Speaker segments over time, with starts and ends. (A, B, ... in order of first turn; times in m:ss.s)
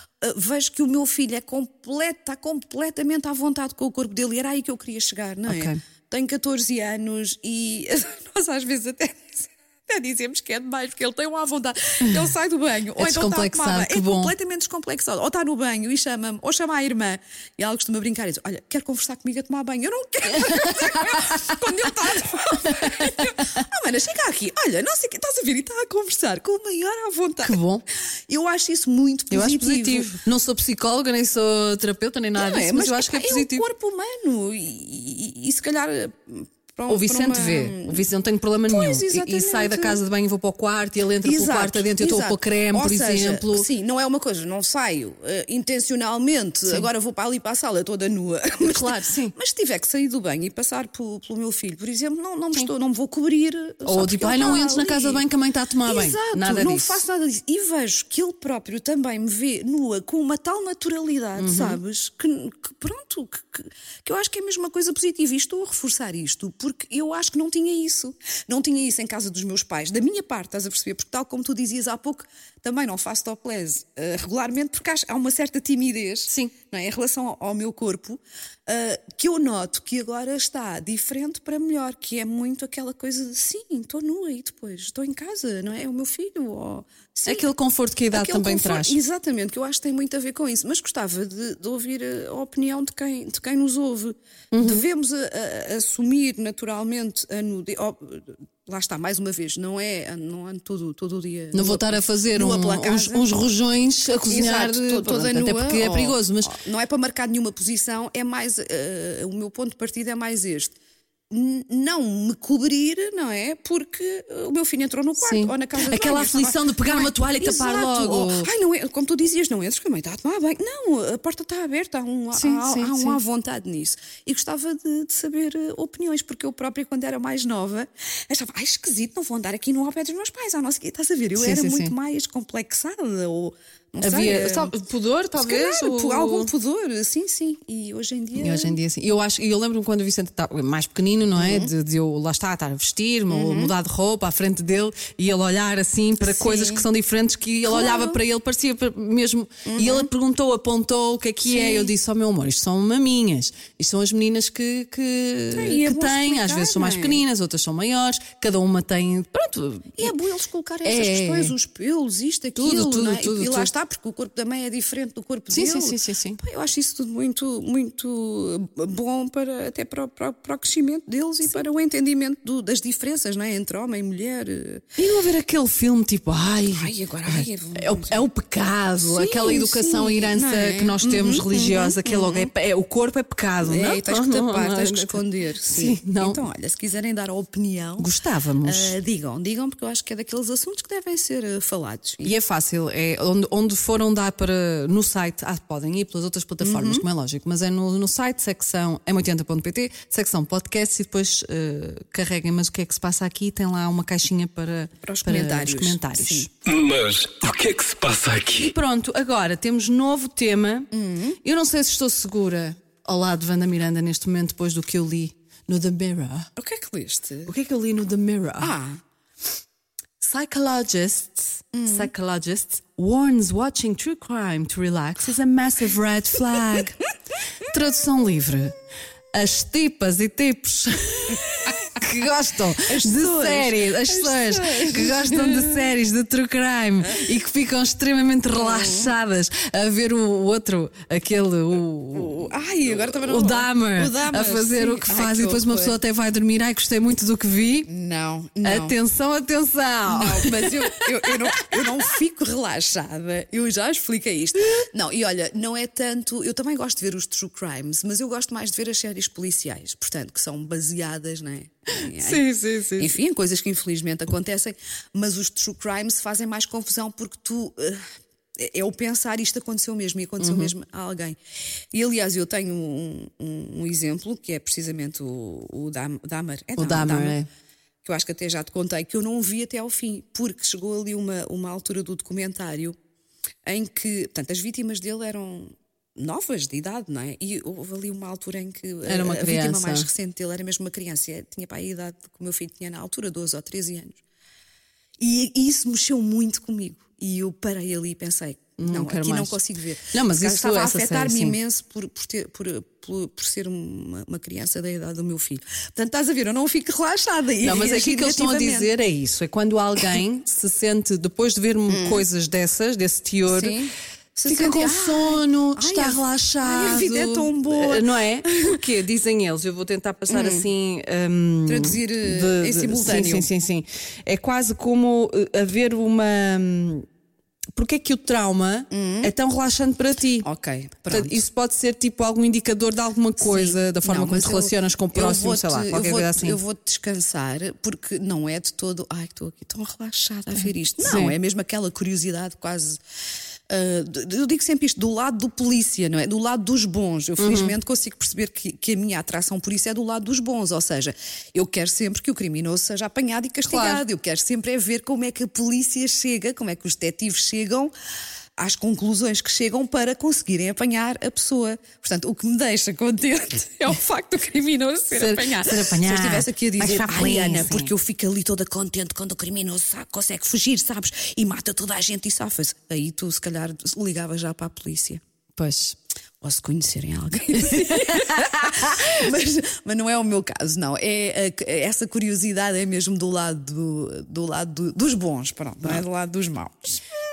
0:00.2-0:27.6 A
0:05.5-0:05.8 B
0:13.0-0:14.3 B
0:20.4-0:21.4 B
0:22.7-0:23.3 B
0:27.4-0:27.8 B
0:28.3-0:30.2 A
0:29.3-0:33.7 B
0:32.4-0:38.0 A
0:36.9-0:43.7 B
0:38.7-0:40.0 A
0:41.2-0:55.2 A
0:48.6-0:49.3 B
0:53.8-0:57.0 B
0:55.8-1:27.5 A
1:01.4-1:01.8 B
1:27.3-1:29.0 B
1:28.1-1:43.3 A
1:34.5-1:34.8 B
1:41.5-1:46.5 B
1:44.3-1:50.8 A
1:51.3-2:14.7 A
1:55.2-1:58.5 B
2:02.3-2:03.2 B
2:11.4-2:11.9 B
2:14.0-2:16.5 B
2:15.4-2:18.8 A
2:18.4-2:40.1 B
2:21.4-2:21.7 A
2:23.3-2:23.7 A
2:26.2-2:26.8 A
2:27.7-2:28.2 A
2:29.7-2:30.1 A
2:31.5-2:31.9 A
2:35.5-2:37.2 A
2:40.0-2:54.9 A
2:40.8-2:41.6 B
2:42.6-2:43.7 B
2:45.5-2:46.4 B
2:55.0-3:06.4 B
2:56.7-2:58.2 A
2:59.0-3:02.5 A
3:03.6-3:08.1 A
3:08.0-3:09.0 B
3:08.6-3:12.4 A
3:12.2-3:26.5 B
3:16.6-3:17.0 A
3:25.0-3:26.5 A
3:26.6-3:28.8 C
3:28.6-3:30.9 B
3:30.9-3:31.4 A
3:31.4-3:36.5 B
3:36.6-3:37.5 A
3:37.5-3:38.7 B
3:38.6-3:39.0 A
3:40.2-3:47.0 B
3:41.7-3:42.1 A
3:47.6-3:48.8 B
3:49.3-4:07.9 B
3:52.8-3:55.9 A
3:58.5-3:59.1 A
4:02.1-4:06.0 A
4:07.9-4:09.0 A
4:08.6-4:12.0 B
4:10.1-4:28.1 A
4:22.0-4:23.2 B
4:28.6-4:31.4 A
4:30.4-4:30.7 B
4:31.9-4:37.4 A
4:36.8-4:37.5 B
4:38.0-4:43.0 A
4:43.6-4:54.2 A
4:49.0-4:50.1 B
4:55.2-5:08.9 A
4:58.8-5:01.6 B
5:07.6-5:13.8 B
5:11.9-5:12.2 A
5:13.5-5:18.8 A
5:14.5-5:27.1 B
5:20.3-5:20.7 A
5:21.7-5:23.5 A
5:27.7-5:30.5 B
5:28.9-5:29.3 A
5:30.4-5:31.4 A
5:31.1-5:36.6 B
5:33.4-5:43.0 A
5:41.0-5:41.4 B
5:43.7-5:57.9 A
5:47.4-5:47.7 B
5:53.7-5:54.0 B
5:58.6-6:15.2 A
6:05.1-6:07.9 B
6:15.6-6:16.0 B
6:16.4-6:27.0 A
6:18.0-6:19.1 B